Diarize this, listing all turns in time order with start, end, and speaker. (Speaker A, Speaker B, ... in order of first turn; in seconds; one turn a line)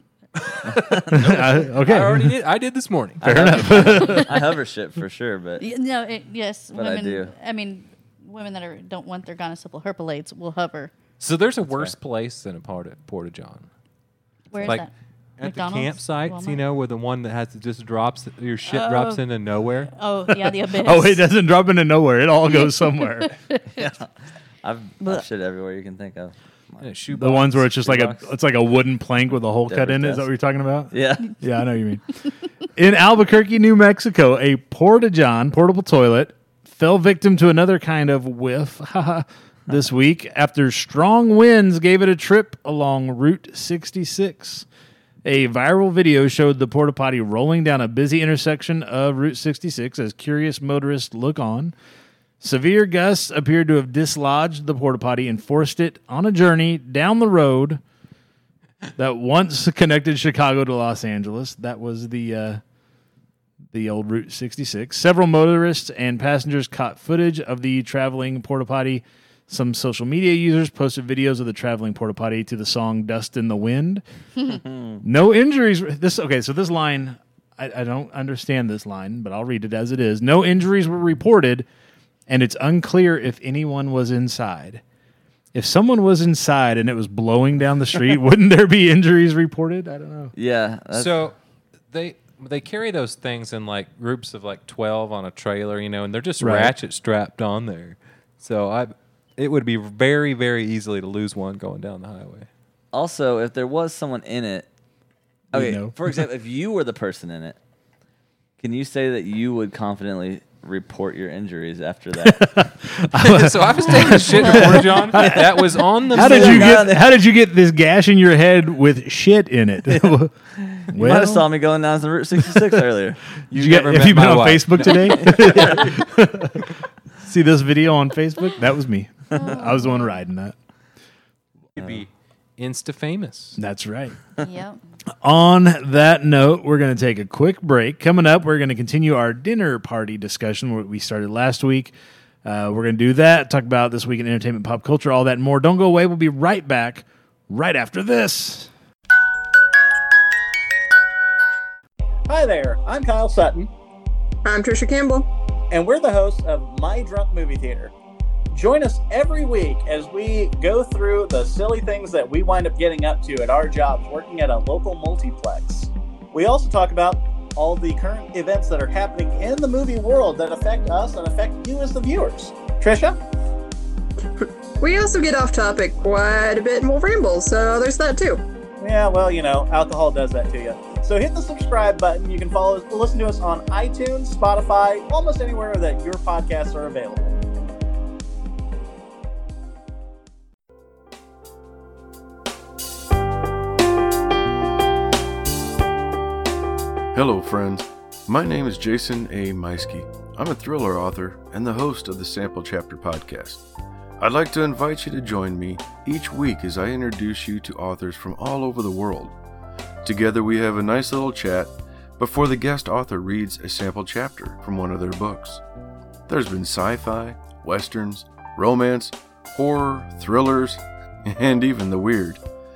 Speaker A: 0.5-2.3
Speaker B: 0.6-1.6
Speaker C: 1.8-3.2
Speaker B: 3.2-5.6
Speaker A: 3.2-4.4
Speaker D: 5.6-10.9
Speaker B: 6.7-7.3
Speaker C: 11.2-13.7
Speaker B: 11.7-11.9
Speaker D: 14.5-14.9
Speaker C: 14.6-14.9
Speaker C: 15.4-19.9
Speaker D: 15.4-16.6
Speaker D: 18.7-19.2
Speaker D: 19.9-21.2
Speaker A: 20.3-23.3
Speaker B: 23.7-24.1
Speaker B: 24.6-26.9
Speaker D: 25.0-25.2
Speaker C: 26.8-27.9
Speaker A: 27.1-32.0
Speaker B: 27.8-28.2
Speaker B: 29.7-30.3
Speaker B: 30.9-31.4
Speaker A: 32.7-44.6
Speaker A: 45.2-51.7
Speaker A: 52.4-57.8
Speaker A: 59.0-62.6
Speaker A: 63.7-74.0
Speaker B: 74.4-75.0
Speaker A: 75.0-81.7
Speaker A: 82.3-84.8
Speaker A: 85.5-90.3
Speaker B: 90.3-91.2
Speaker C: 90.9-91.3
Speaker C: 91.9-102.5
Speaker A: 96.4-96.7
Speaker B: 102.9-104.7
Speaker A: 105.5-106.0
Speaker B: 105.5-107.6
Speaker B: 108.6-112.4
Speaker A: 112.2-120.3
Speaker C: 113.2-116.8
Speaker D: 114.1-114.3
Speaker B: 116.1-117.0
Speaker B: 119.9-123.2
Speaker A: 120.9-121.5
Speaker A: 122.4-122.8
Speaker A: 123.5-126.7
Speaker C: 123.5-125.8
Speaker B: 125.4-125.9
Speaker A: 127.2-130.5
Speaker D: 129.3-130.1
Speaker C: 131.7-133.6
Speaker A: 133.6-134.2
Speaker D: 134.4-134.8
Speaker A: 135.2-141.9
Speaker A: 142.4-148.7
Speaker E: 152.3-153.7
Speaker F: 154.4-155.3
Speaker E: 155.7-157.9
Speaker E: 158.5-173.2
Speaker F: 174.8-178.4
Speaker E: 178.8-187.3
Speaker G: 197.1-203.6
Speaker G: 204.2-209.3
Speaker G: 210.0-215.6
Speaker G: 216.3-222.4